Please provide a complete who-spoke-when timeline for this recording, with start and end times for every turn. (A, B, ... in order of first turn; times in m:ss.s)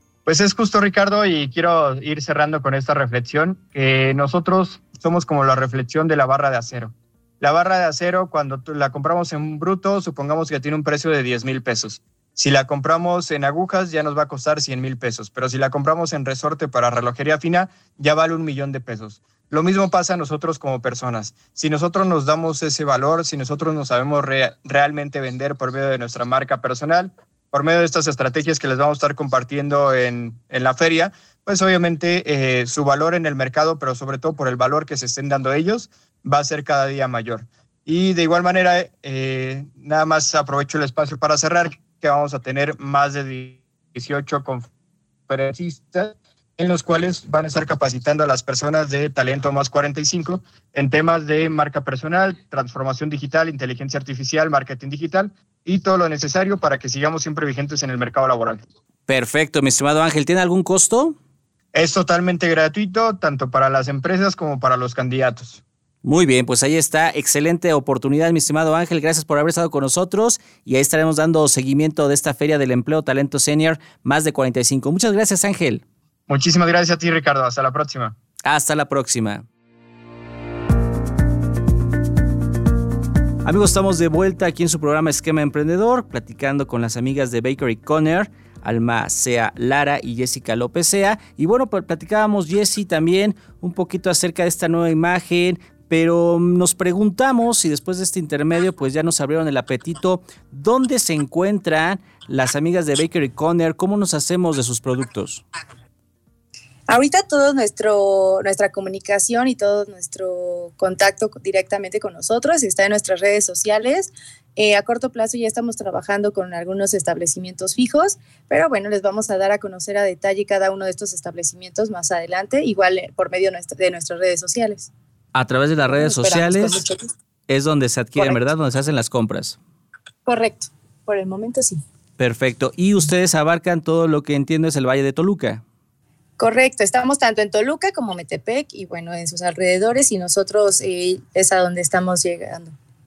0:00.3-0:44.7 A
0:45.3-0:58.6 A
0:59.1-1:01.2 B
1:01.7-1:05.6 A
1:06.0-1:15.8 B
1:16.3-1:18.2 A
1:18.4-1:19.5 B
1:23.4-1:45.4 B
1:46.9-2:04.9 C
2:05.4-2:06.8 B
2:06.0-2:07.1 C
2:07.5-2:09.6 B
2:10.3-2:11.8 C
2:12.2-2:15.6 B
2:16.4-2:22.8 C